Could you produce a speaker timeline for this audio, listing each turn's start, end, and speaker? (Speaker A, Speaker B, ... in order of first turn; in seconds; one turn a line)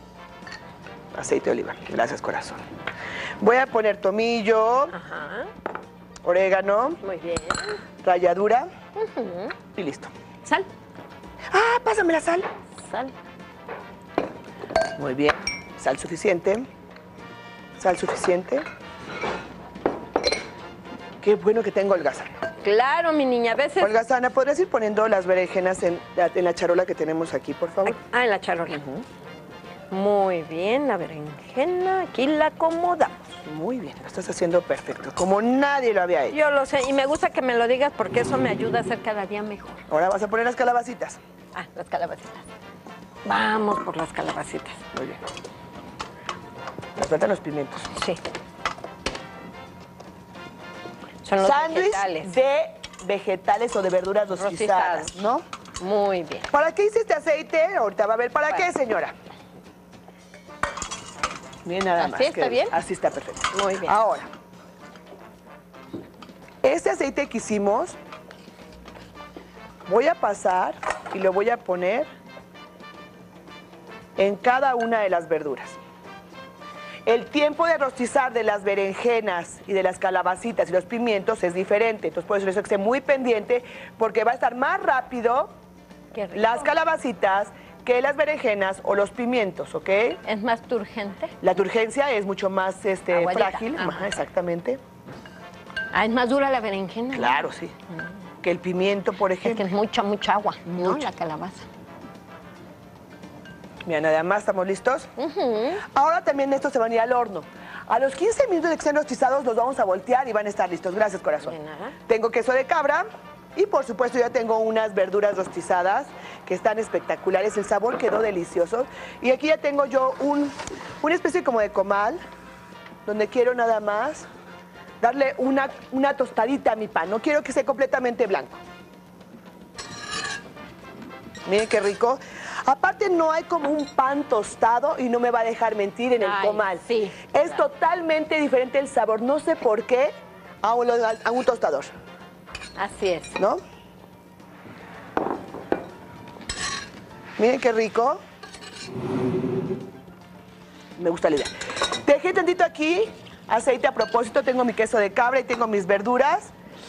Speaker A: 1.1-2.6
Speaker A: 3.4-5.0
Speaker B: 4.9-5.5
Speaker A: 6.2-7.0
Speaker B: 7.0-7.8
Speaker A: 8.0-8.7
Speaker B: 8.9-9.6
Speaker A: 9.7-10.1
Speaker B: 10.4-10.7
Speaker A: 11.5-12.5
Speaker B: 12.8-13.1
Speaker A: 14.9-16.6
Speaker A: 17.8-18.6
Speaker A: 21.2-22.3
Speaker B: 22.6-23.9
Speaker A: 23.8-28.0
Speaker B: 27.8-28.8
Speaker A: 28.7-29.0
Speaker B: 29.9-33.3
Speaker A: 33.4-36.4
Speaker B: 36.3-39.8
Speaker A: 39.9-41.2
Speaker B: 41.5-42.5
Speaker B: 43.2-44.8
Speaker A: 44.9-45.2
Speaker A: 47.0-47.9
Speaker B: 47.9-48.2
Speaker B: 51.2-52.4
Speaker A: 51.4-55.4
Speaker B: 54.3-55.1
Speaker B: 55.8-56.5
Speaker A: 56.5-59.1
Speaker A: 61.6-64.3
Speaker B: 62.0-62.8
Speaker B: 63.5-64.0
Speaker A: 66.6-68.0
Speaker A: 69.8-72.1
Speaker A: 74.2-75.8
Speaker A: 77.0-85.5
Speaker B: 86.1-86.7
Speaker A: 86.3-90.2
Speaker B: 90.2-91.3
Speaker A: 91.4-94.8
Speaker B: 93.1-94.1
Speaker B: 95.9-97.5
Speaker A: 97.1-97.8
Speaker A: 98.4-99.6
Speaker B: 99.4-101.7
Speaker A: 100.7-101.1
Speaker A: 103.8-105.1
Speaker B: 105.2-105.8
Speaker A: 105.8-122.2
Speaker B: 111.4-112.0
Speaker A: 123.0-124.3
Speaker A: 125.0-128.6
Speaker A: 131.4-141.9
Speaker B: 136.2-137.6
Speaker B: 142.8-143.4
Speaker A: 143.3-143.6
Speaker A: 147.4-148.2
Speaker A: 151.0-151.5
Speaker A: 152.0-156.5